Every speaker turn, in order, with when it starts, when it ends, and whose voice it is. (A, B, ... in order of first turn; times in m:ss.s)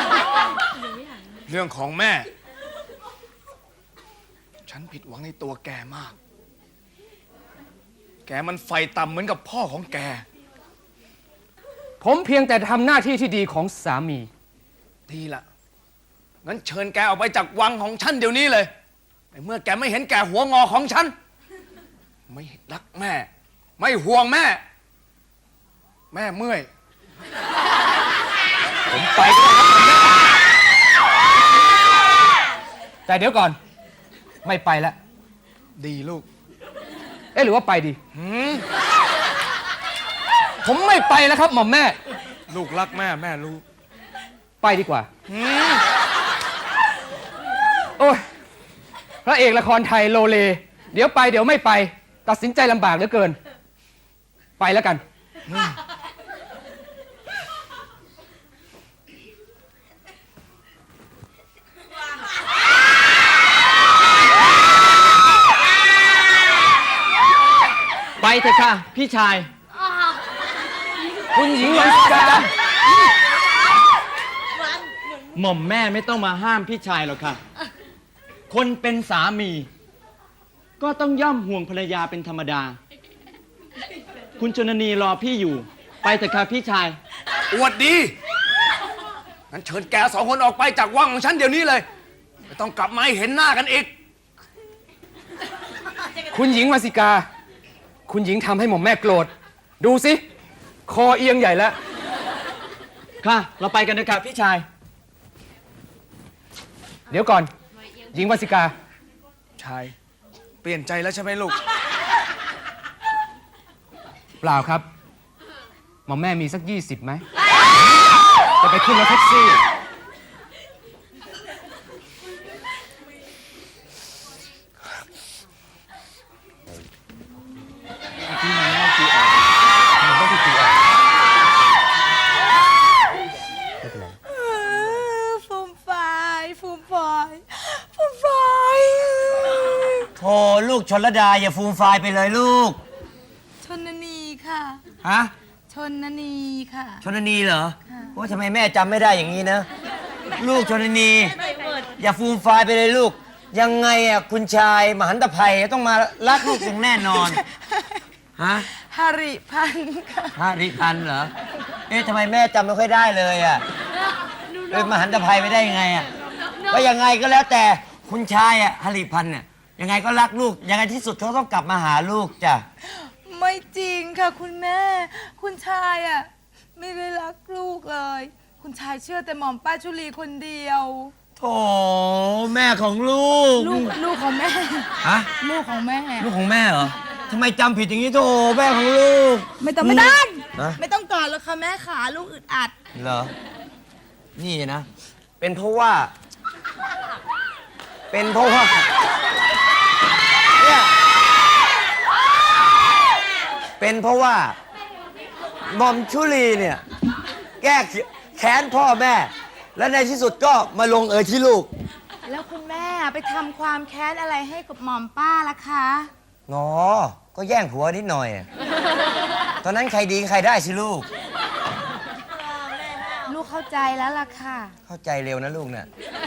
0:01.5-0:02.3 A
0:04.7-0:06.2 A
0:08.2-0:10.2 A
0:12.0-0:14.3 B
0:15.1-0:15.4 A
0:16.4-0:18.7 A
0:19.3-0:21.1 A
0:22.3-0:24.6 A
0:26.1-0:26.7 A
0:28.9-0:30.0 B
0:33.1-0:33.6 B
0:34.4-0:35.0 B
0:35.8-0:36.2 A
0:37.3-0:38.0 B
0:38.1-0:38.6 A
0:40.6-0:42.0 B
0:42.5-0:43.6 A
0:44.6-0:45.1 B
0:45.3-0:45.8 A
0:48.0-0:48.2 B
0:49.2-0:53.4 B
0:54.6-0:55.0 B
1:08.2-1:09.5 C
1:11.3-1:12.5 B
1:11.6-1:12.4 C
1:15.4-1:17.4 C
1:18.5-1:19.7 C
1:20.8-1:22.8 C
1:24.4-1:27.0 C
1:27.5-1:28.1 A
1:29.5-1:31.9 A
1:32.5-1:33.9 A
1:36.3-1:37.2 B
1:38.1-1:40.2 B
1:40.9-1:41.8 B
1:43.2-1:44.6 C
1:47.1-1:47.5 B
1:48.1-1:48.7 B
1:49.6-1:49.9 A
1:50.6-1:51.6 A
1:54.4-1:54.8 B
1:56.1-1:57.2 B
1:58.6-1:59.6 B
2:08.2-2:09.5 C
2:13.8-2:14.2 D
2:14.3-2:20.1 E
2:20.2-2:22.8 D
2:23.6-2:24.8 E
2:25.0-2:25.3 D
2:25.7-2:27.0 E
2:27.0-2:29.7 D
2:30.4-2:31.4 D
2:32.0-2:37.4 D
2:36.5-2:38.0 E
2:38.4-2:38.7 D
2:38.7-2:40.4 E
2:40.4-2:41.3 D
2:41.9-2:43.6 D
2:44.7-2:46.1 D
2:46.7-2:52.6 D
2:52.8-3:01.1 E
3:01.4-3:04.0 D
3:03.6-3:06.3 E
3:05.0-3:05.3 D
3:06.2-3:10.8 D
3:09.6-3:12.7 E
3:13.0-3:13.3 D
3:14.4-3:14.9 D
3:15.4-3:16.1 D
3:18.1-3:19.0 D
3:20.6-3:21.0 D
3:23.8-3:24.6 D
3:25.7-3:26.8 D
3:27.6-3:31.7 D
3:32.2-3:36.1 E
3:36.5-3:38.5 D
3:39.6-3:41.1 D
3:43.2-3:44.8 E
3:44.9-3:45.9 D